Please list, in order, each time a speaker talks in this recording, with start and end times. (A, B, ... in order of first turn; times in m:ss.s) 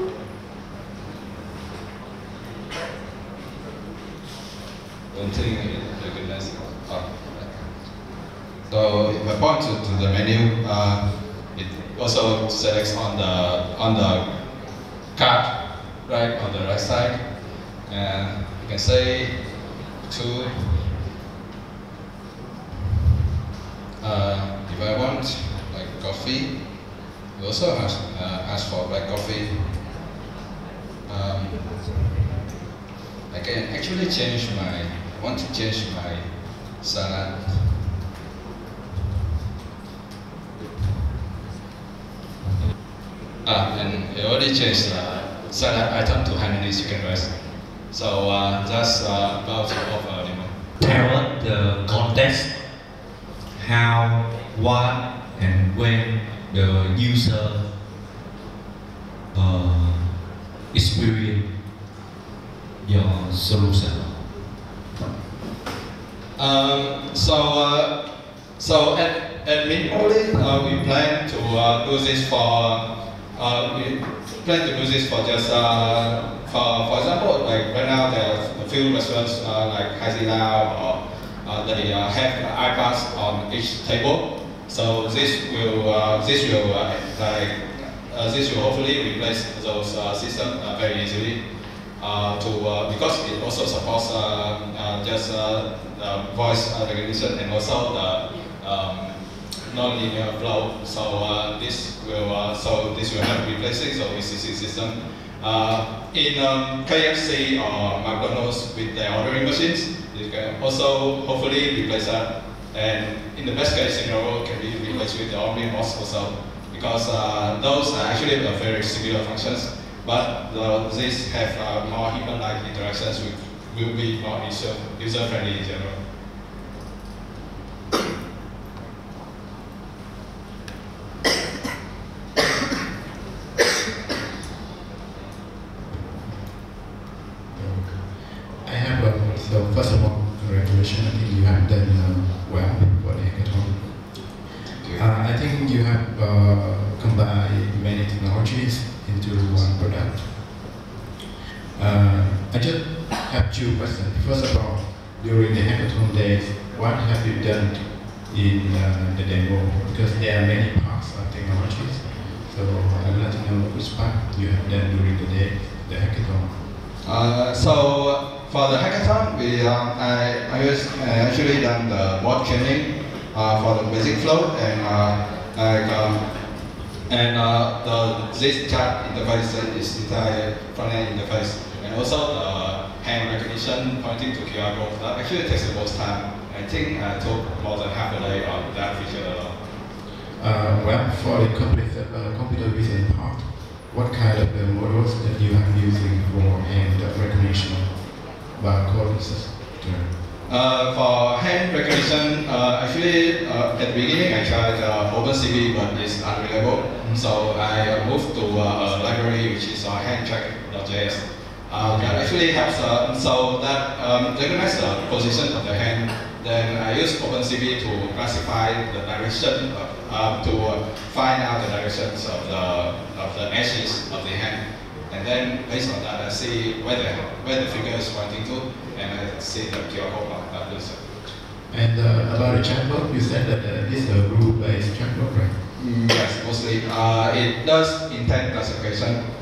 0:05.1-0:07.6 A
0:08.7-0:14.3 A
0:15.1-0:15.5 A
0:16.0-0:17.2 A
0:17.8-0:19.5 A
0:20.1-0:20.9 A
0:24.0-0:26.6 A
0:27.4-0:29.7 A
0:31.1-0:31.8 A
0:33.3-0:36.3 A
0:36.8-0:37.9 A
0:43.4-0:50.5 A
0:50.8-0:52.5 B
0:53.6-0:57.6 B
0:59.3-1:00.1 B
1:00.7-1:01.4 B
1:02.8-1:04.1 B
1:06.4-1:07.9 A
1:08.6-1:31.4 A
1:32.0-2:06.0 A
2:17.5-2:24.3 C
2:24.8-2:25.1 A
2:25.0-2:30.3 C
2:31.8-2:46.5 C
2:47.0-2:56.3 A
2:57.1-3:09.6 A
3:10.4-3:20.1 C
3:20.5-3:51.0 A
3:27.0-3:27.3 C
3:31.8-3:32.2 C
3:51.7-3:55.6 C
3:55.8-3:59.2 A